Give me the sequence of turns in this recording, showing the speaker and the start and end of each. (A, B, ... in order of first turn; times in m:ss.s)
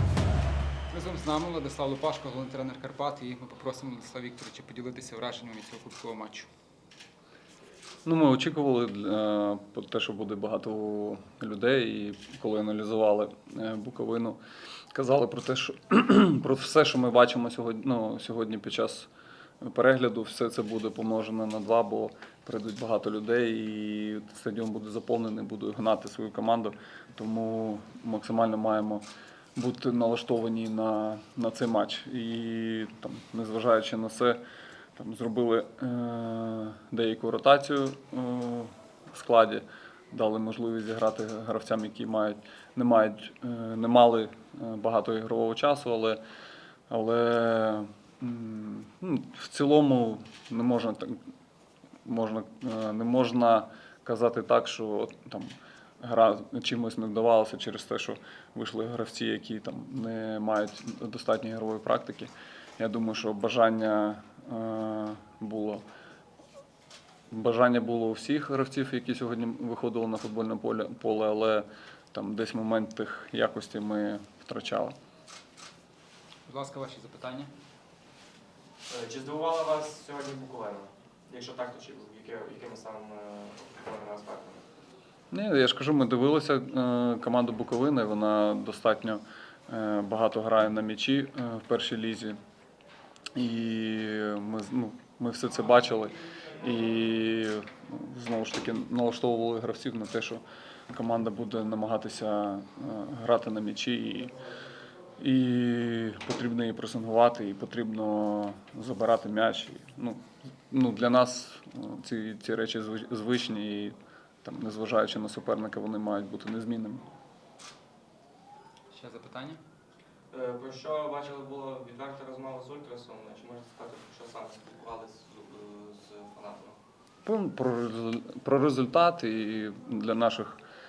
0:00.9-0:06.5 A
0:08.0-0:14.4 B
0:14.9-0:19.1 B
0:19.6-0:34.4 B
0:35.0-0:46.2 B
0:46.9-0:51.2 B
0:52.0-1:05.8 B
1:07.3-1:15.0 B
1:16.5-1:17.5 A
1:18.9-1:24.6 C
1:25.3-1:32.4 B
1:33.3-1:44.3 B
1:45.2-1:57.0 B
1:58.9-1:59.6 A
2:00.3-2:06.8 C
2:07.2-2:10.6 B